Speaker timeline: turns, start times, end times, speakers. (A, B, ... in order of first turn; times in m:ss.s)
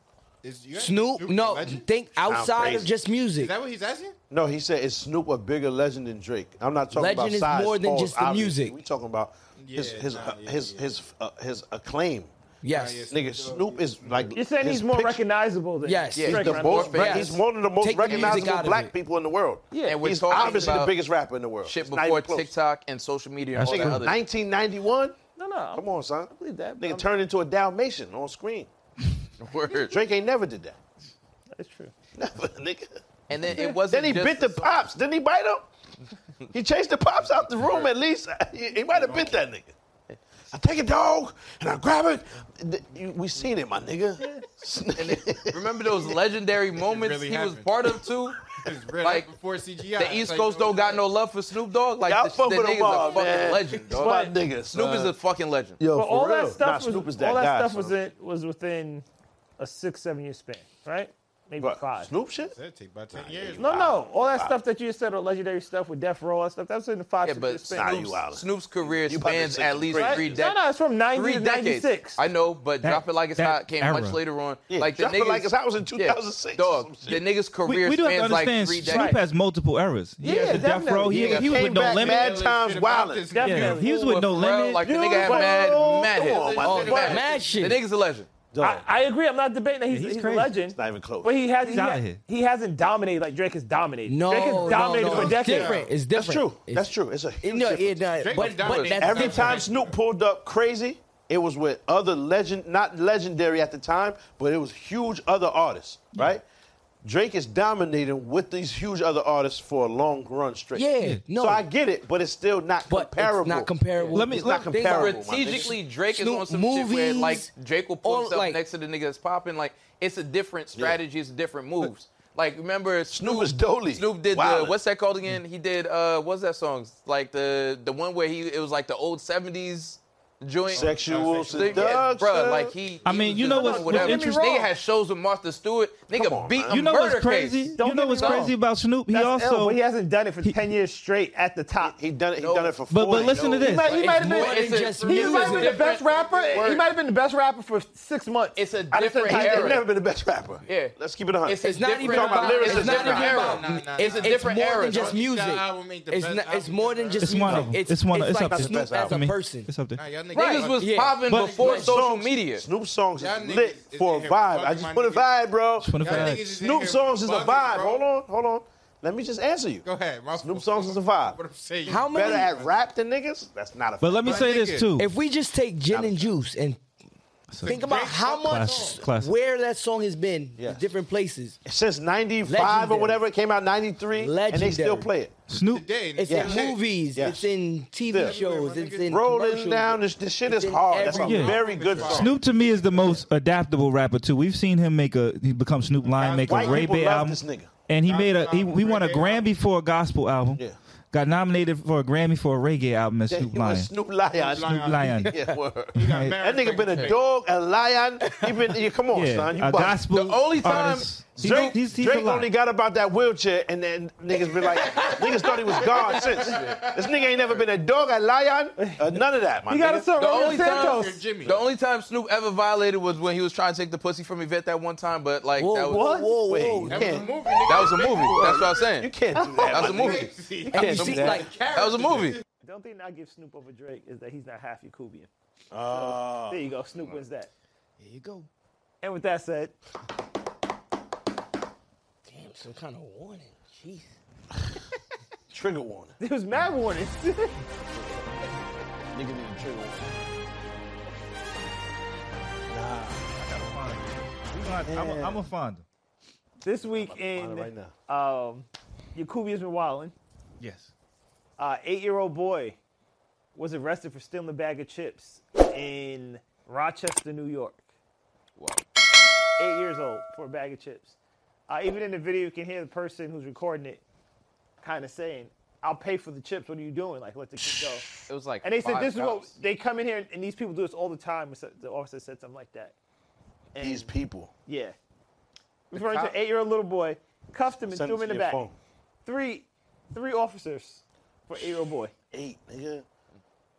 0:00.4-0:01.9 A
0:00.7-0:03.5 B
0:02.2-0:02.9 C
0:03.3-0:04.2 A
0:04.3-0:12.3 C
0:06.9-0:08.8 B
0:09.6-0:11.0 A
0:12.6-0:13.1 B
0:12.7-0:14.4 A
0:13.1-0:15.2 C
0:14.4-0:17.1 D
0:15.8-0:18.9 B
0:16.2-0:17.4 E
0:16.3-0:22.5 C
0:18.0-0:18.6 E
0:19.7-0:20.8 D
0:19.8-0:21.0 E
0:21.6-0:24.2 E
0:23.6-0:24.1 F
0:23.6-0:25.2 C
0:25.4-0:27.1 D
0:25.7-0:28.7 C
0:29.4-0:30.0 E
0:29.7-0:30.8 C
0:31.5-0:31.9 D
0:32.2-0:35.7 C
0:33.3-0:34.7 E
0:36.5-0:39.7 C
0:37.6-0:37.9 E
0:38.9-0:39.4 A
0:40.5-0:46.1 C
0:45.0-0:49.3 E
0:46.8-0:47.7 A
0:48.5-0:51.1 A
0:50.0-0:55.8 E
0:52.0-0:55.2 C
0:53.9-0:54.4 D
0:55.8-0:58.0 C
0:55.9-0:59.0 D
0:59.6-1:02.1 D
1:01.6-1:02.6 C
1:02.4-1:04.0 A
1:03.1-1:04.6 C
1:03.6-1:07.9 D
1:07.2-1:19.2 E
1:07.7-1:10.4 C
1:09.9-1:12.2 D
1:12.8-1:14.2 F
1:14.7-1:17.2 C
1:17.7-1:22.3 F
1:18.9-1:19.2 D
1:20.2-1:21.3 D
1:21.1-1:23.3 C
1:21.1-1:23.9 A
1:23.3-1:24.1 D
1:23.4-1:24.8 F
1:23.8-1:28.3 E
1:24.8-1:27.2 C
1:26.3-1:27.5 A
1:26.6-1:27.8 B
1:28.5-1:28.9 C
1:28.6-1:35.9 D
1:29.9-1:30.5 F
1:30.7-1:31.4 C
1:31.6-1:32.2 F
1:34.1-1:39.6 B
1:35.1-1:35.9 A
1:36.1-1:38.1 C
1:38.1-1:40.0 A
1:38.4-1:39.1 E
1:38.9-1:46.4 C
1:47.0-1:55.8 C
1:50.8-1:51.6 B
1:52.9-1:57.5 B
1:54.1-1:54.8 F
1:54.8-2:18.5 E
1:58.0-1:58.6 B
2:00.7-2:01.0 C
2:03.1-2:04.8 C
2:10.7-2:12.2 A
2:10.7-2:12.8 C
2:12.7-2:13.5 A
2:13.0-2:14.4 F
2:13.5-2:14.7 D
2:16.1-2:16.8 C
2:16.7-2:19.8 F
2:17.8-2:18.6 D
2:19.1-2:22.0 D
2:21.8-2:23.7 C
2:22.4-2:26.8 E
2:22.9-2:24.0 F
2:23.6-2:29.8 D
2:24.0-2:25.8 B
2:24.8-2:26.9 A
2:28.6-2:29.9 E
2:28.9-2:33.3 C
2:30.7-2:35.2 E
2:31.6-2:39.7 B
2:32.1-2:37.6 A
2:37.2-2:40.0 F
2:38.4-2:39.3 C
2:39.9-2:41.9 A
2:40.3-2:42.7 E
2:40.3-2:41.9 B
2:41.2-2:41.6 F
2:41.7-2:51.4 C
2:43.2-2:45.3 A
2:45.8-2:46.6 F
2:45.9-2:48.1 A
2:49.8-2:52.7 A
2:51.8-2:52.5 B
2:52.0-2:54.5 C
2:54.0-2:55.1 F
2:54.2-2:54.9 A
2:55.0-2:56.8 B
2:55.9-2:56.3 C
2:57.5-2:59.3 F
2:57.6-2:59.0 A
2:57.6-3:01.6 B
3:00.6-3:00.8 C
3:01.6-3:05.4 C
3:02.5-3:03.2 B
3:04.1-3:05.1 B
3:05.5-3:05.9 F
3:05.6-3:06.8 A
3:06.2-3:12.2 B
3:06.3-3:07.5 C
3:08.1-3:08.4 C
3:08.1-3:09.2 A
3:09.1-3:12.4 C
3:11.0-3:13.3 A
3:11.2-3:23.9 F
3:16.0-3:17.1 A
3:16.5-3:17.7 C
3:18.0-3:19.5 A
3:23.3-3:30.0 C
3:24.3-3:25.3 A
3:24.7-3:25.3 F
3:25.9-3:27.3 A
3:26.0-3:26.3 F
3:28.2-3:28.7 B
3:29.1-3:32.5 F
3:30.1-3:31.8 E
3:31.4-3:40.1 C
3:34.8-3:37.6 A
3:35.9-3:36.8 E
3:38.8-3:41.2 D
3:40.2-3:46.2 E
3:40.3-3:41.7 A
3:45.6-3:47.3 B
3:45.9-3:46.3 D
3:46.5-3:51.4 C
3:46.9-3:49.0 A
3:47.6-3:49.1 E
3:49.4-3:49.8 D
3:49.7-3:50.3 E
3:49.7-3:52.4 A
3:50.7-3:51.2 D
3:50.7-3:51.6 B
3:50.9-3:52.4 E
3:52.6-3:55.3 D
3:55.7-3:56.7 C
3:55.9-3:57.5 D
3:58.0-3:58.5 B
3:59.0-3:59.8 D
4:02.3-4:04.1 B
4:05.5-4:06.2 C
4:06.2-4:07.6 D
4:08.0-4:08.2 C
4:09.1-4:10.2 C
4:12.7-4:13.3 C
4:13.3-4:15.8 F
4:14.9-4:15.4 C
4:16.6-4:20.2 D
4:16.8-4:17.9 C
4:20.6-4:20.9 F
4:21.6-4:22.8 D
4:23.6-4:27.8 D
4:28.6-4:28.8 E
4:29.6-4:31.2 D
4:31.7-4:34.0 D
4:34.8-4:38.1 D
4:38.3-4:39.5 E
4:38.6-4:43.0 D
4:43.8-4:44.1 D
4:43.8-4:44.5 C
4:44.7-4:45.0 D
4:45.9-4:48.6 D
4:45.9-4:46.4 E
4:47.9-4:48.8 C
4:49.2-4:52.1 D
4:52.3-4:53.0 C